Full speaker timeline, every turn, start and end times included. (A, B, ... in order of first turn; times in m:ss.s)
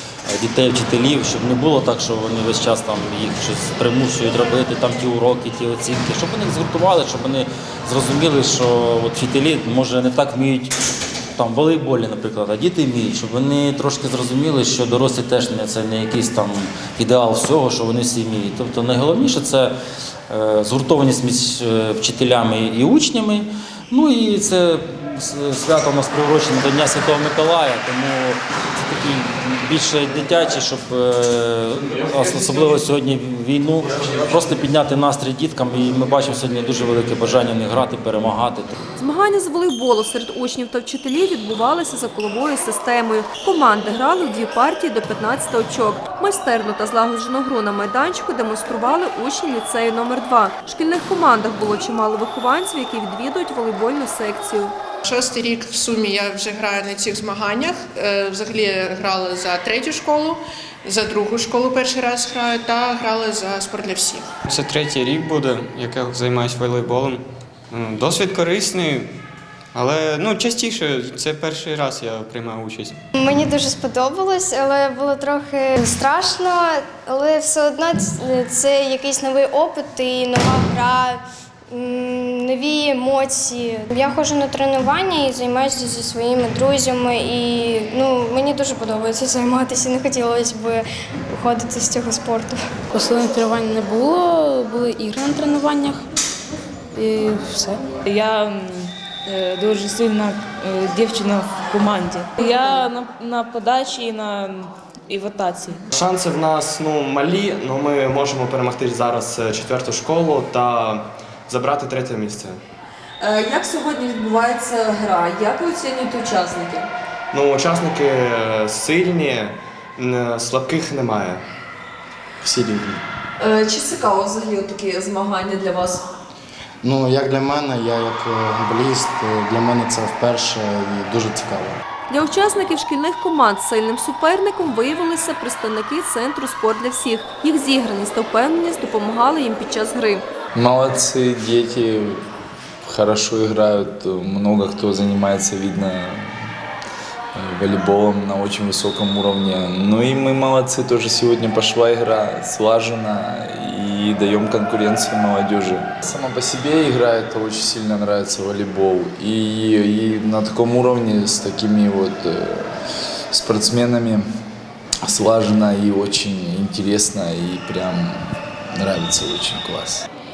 0:00.3-0:10.7 A
0:11.3-0:19.7 A
0:20.3-0:38.8 A
0:39.0-0:54.7 B
0:55.1-1:04.3 C
1:04.5-1:07.2 D
1:07.7-1:09.1 D
1:09.8-1:13.0 D
1:13.2-1:32.6 E
1:33.0-1:36.0 F
1:37.0-1:37.8 F
1:38.0-1:45.8 G
1:45.9-1:52.6 H
1:53.2-1:56.8 I
1:57.3-2:01.4 H
2:02.4-2:03.0 J
2:03.4-2:06.0 I
2:06.8-2:11.8 J
2:12.1-2:20.2 B
2:20.5-2:22.2 K
2:22.8-2:26.3 K
2:27.3-2:42.7 K
2:43.3-2:44.2 K
2:45.0-2:48.2 K
2:48.8-2:50.1 K